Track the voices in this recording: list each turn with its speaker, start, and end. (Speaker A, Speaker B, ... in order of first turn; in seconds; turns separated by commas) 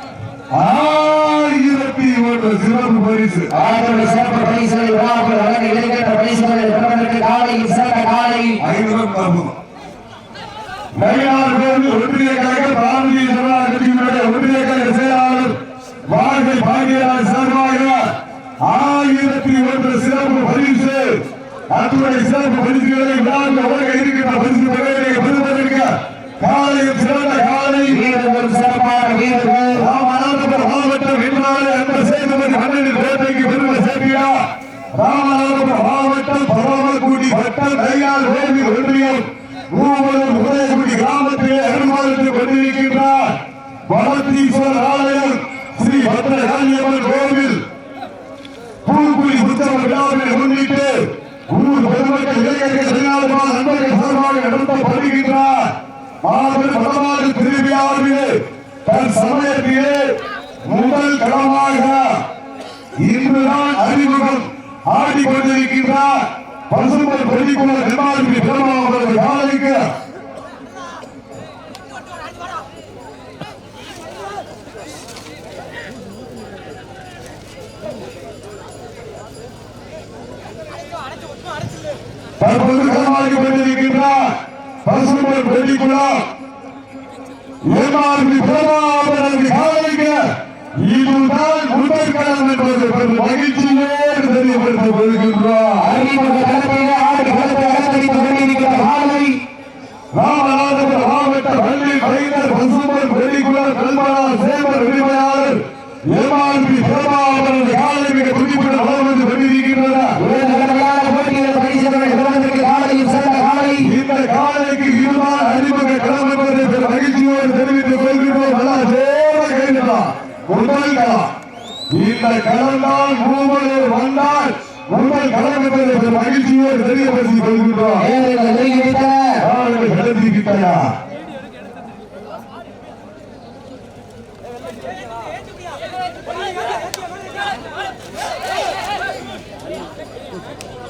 Speaker A: 0.5-3.5, Speaker B: 3.5-8.6, Speaker A: 8.6-9.6, Speaker A: 10.9-18.1, Speaker A: 18.6-28.0, Speaker B: 27.9-29.9, Speaker A: 29.7-34.4, Speaker A: 34.9-47.6, Speaker A: 48.8-62.2, Speaker A: 63.0-69.9, Speaker A: 82.4-86.3, Speaker A: 87.7-95.9, Speaker B: 95.8-99.4, Speaker A: 100.1-110.2, Speaker B: 110.2-113.9, Speaker A: 113.8-121.3, Speaker A: 121.9-128.1, Speaker B: 128.0-129.4, Speaker A: 129.4-130.9